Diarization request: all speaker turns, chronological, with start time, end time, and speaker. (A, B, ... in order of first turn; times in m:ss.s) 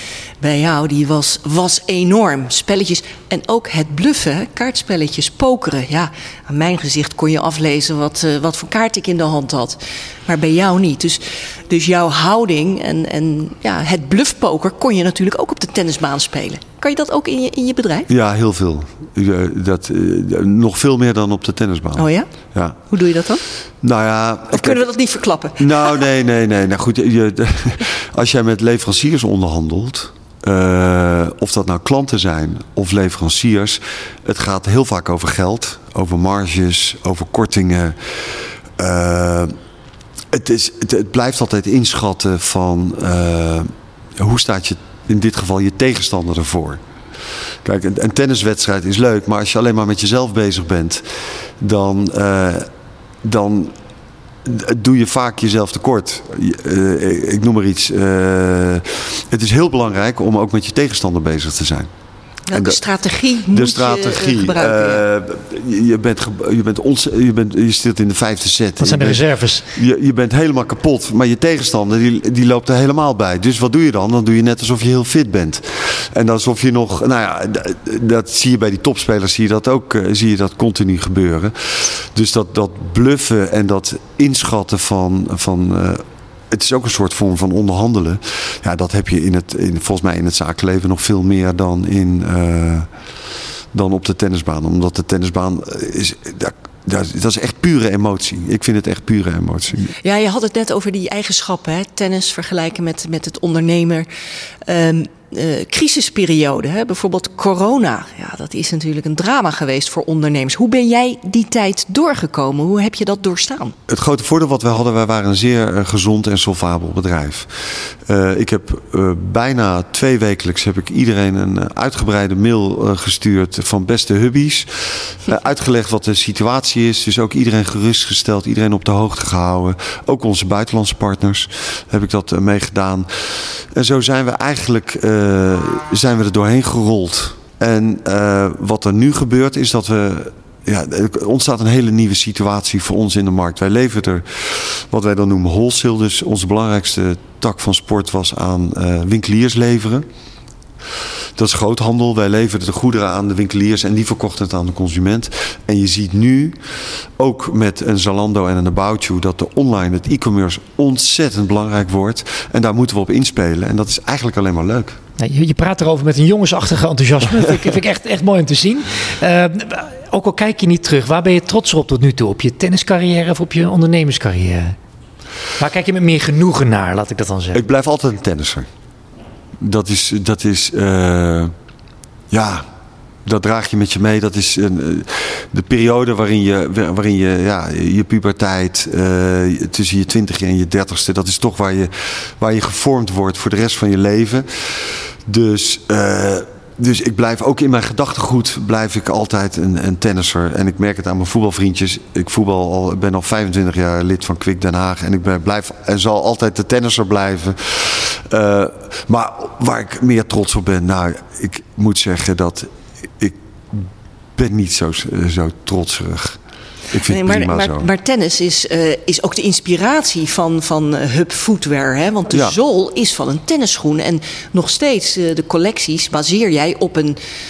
0:00.4-0:18.1 A
0:18.1-0:22.8 B
0:22.0-0:22.3 A
0:22.9-0:23.4 A
0:23.8-0:24.8 B
0:24.5-0:26.0 A
0:25.6-0:39.5 B
0:40.3-0:46.8 B
0:47.6-0:51.0 B
0:51.6-0:52.7 B
0:53.2-0:53.7 B
0:54.4-1:01.9 B
1:02.5-1:05.0 A
1:02.5-1:02.8 B
1:03.5-1:32.9 B
1:08.8-1:09.7 C
1:33.7-1:39.9 B
1:40.0-1:44.1 A
1:44.6-1:53.7 A
1:53.9-2:30.0 B
2:31.4-2:36.6 B
2:37.2-2:45.0 B
2:45.2-2:54.8 C
2:55.6-2:57.6 C
2:57.5-2:58.7 B
2:59.6-3:01.5 B
3:02.3-3:02.6 B
3:03.2-3:36.4 B
3:36.9-3:37.9 B
3:37.1-3:47.2 A
3:42.3-3:42.6 B